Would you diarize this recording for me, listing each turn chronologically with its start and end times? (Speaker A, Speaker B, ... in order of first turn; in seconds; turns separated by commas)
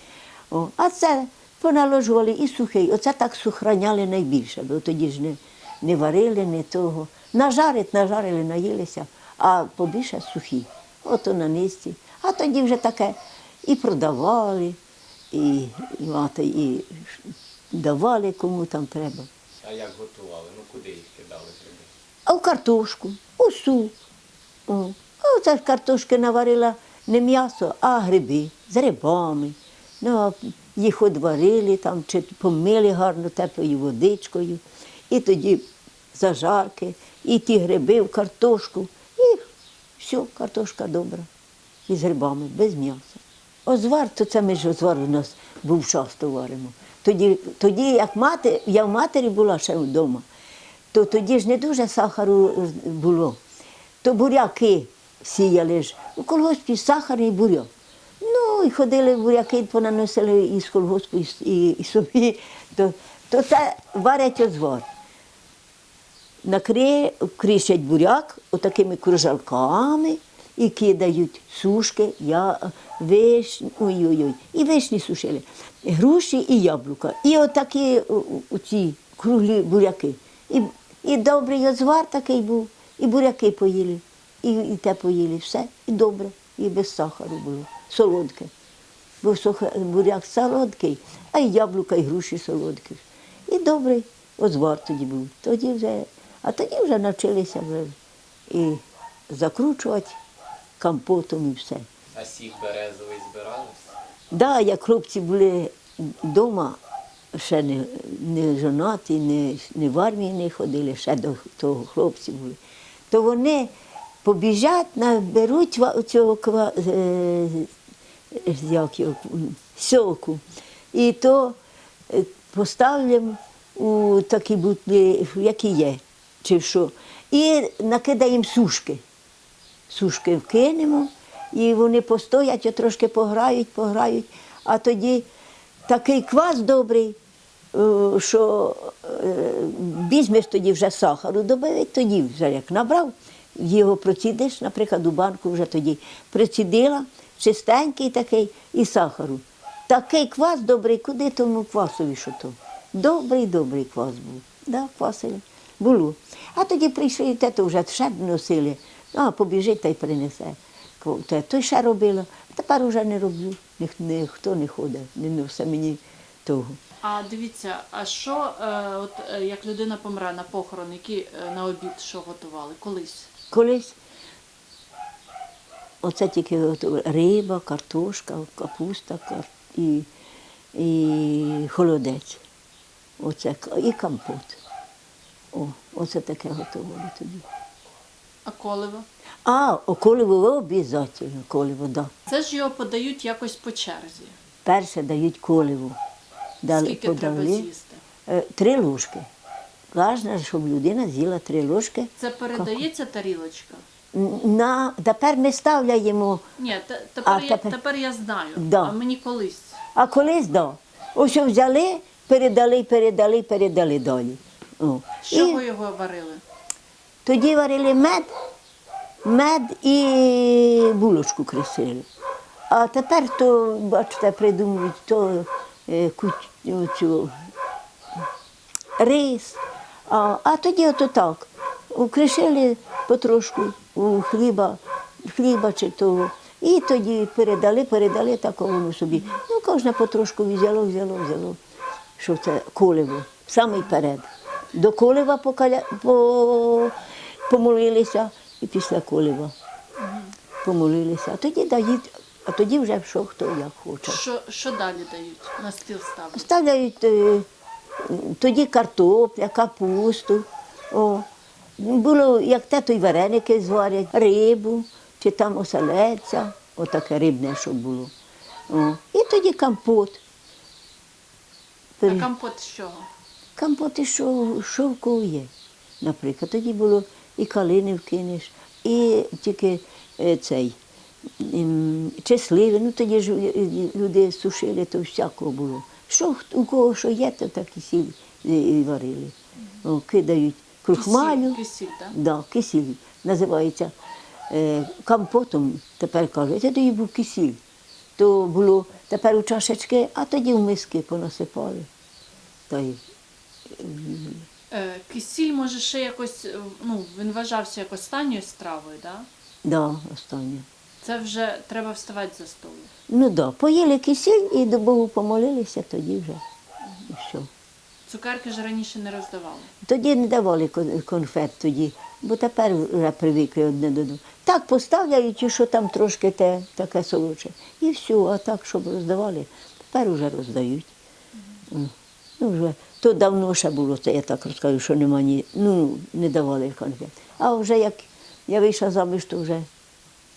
Speaker A: 0.5-14.8, Speaker A: 15.3-19.3, Speaker B: 19.6-21.9, Speaker A: 22.2-23.9, Speaker A: 24.7-41.3, Speaker A: 41.9-50.2, Speaker A: 50.9-53.4, Speaker A: 54.0-57.7, Speaker A: 58.2-64.9, Speaker A: 66.4-88.5, Speaker A: 89.2-97.9, Speaker A: 98.5-100.2, Speaker A: 100.8-101.8, Speaker B: 102.1-103.9, Speaker A: 104.3-106.8, Speaker A: 107.3-112.6, Speaker A: 113.1-113.7, Speaker A: 114.2-117.7, Speaker A: 118.3-120.4, Speaker A: 120.9-121.6, Speaker A: 122.1-129.0, Speaker A: 129.9-135.3, Speaker A: 135.9-137.2, Speaker A: 137.7-166.8, Speaker C: 167.0-173.3, Speaker A: 173.5-174.0, Speaker A: 176.0-180.1, Speaker A: 180.7-182.4, Speaker A: 183.2-184.6, Speaker A: 185.5-187.4, Speaker C: 188.4-189.1, Speaker A: 189.4-192.1, Speaker C: 192.3-194.3, Speaker A: 194.6-196.0, Speaker A: 196.6-197.7, Speaker C: 196.7-198.0, Speaker A: 198.2-199.3, Speaker A: 199.9-202.8, Speaker C: 202.2-203.8, Speaker A: 204.1-206.4, Speaker C: 206.6-209.8, Speaker A: 207.2-207.7, Speaker A: 208.6-208.9, Speaker A: 209.9-215.6, Speaker C: 215.2-216.4, Speaker A: 217.2-218.3, Speaker A: 219.2-222.1, Speaker A: 222.7-227.3, Speaker A: 229.0-241.6, Speaker A: 242.2-246.9, Speaker A: 247.5-249.5, Speaker C: 250.0-250.3, Speaker A: 250.6-254.2, Speaker C: 254.0-256.5, Speaker A: 256.3-257.5, Speaker A: 258.0-261.2, Speaker A: 261.8-268.1, Speaker A: 268.7-270.2, Speaker A: 272.0-272.3, Speaker C: 272.0-273.1, Speaker A: 273.6-280.8, Speaker A: 281.4-291.6, Speaker C: 290.9-292.1, Speaker A: 292.1-293.9, Speaker A: 294.5-297.6, Speaker A: 298.2-301.9, Speaker A: 302.7-303.0, Speaker A: 303.7-304.4, Speaker C: 304.7-309.3, Speaker A: 309.6-310.6, Speaker C: 311.0-312.9, Speaker A: 313.1-316.4, Speaker A: 317.1-317.5, Speaker C: 318.1-319.7, Speaker A: 319.8-330.9, Speaker A: 331.7-339.7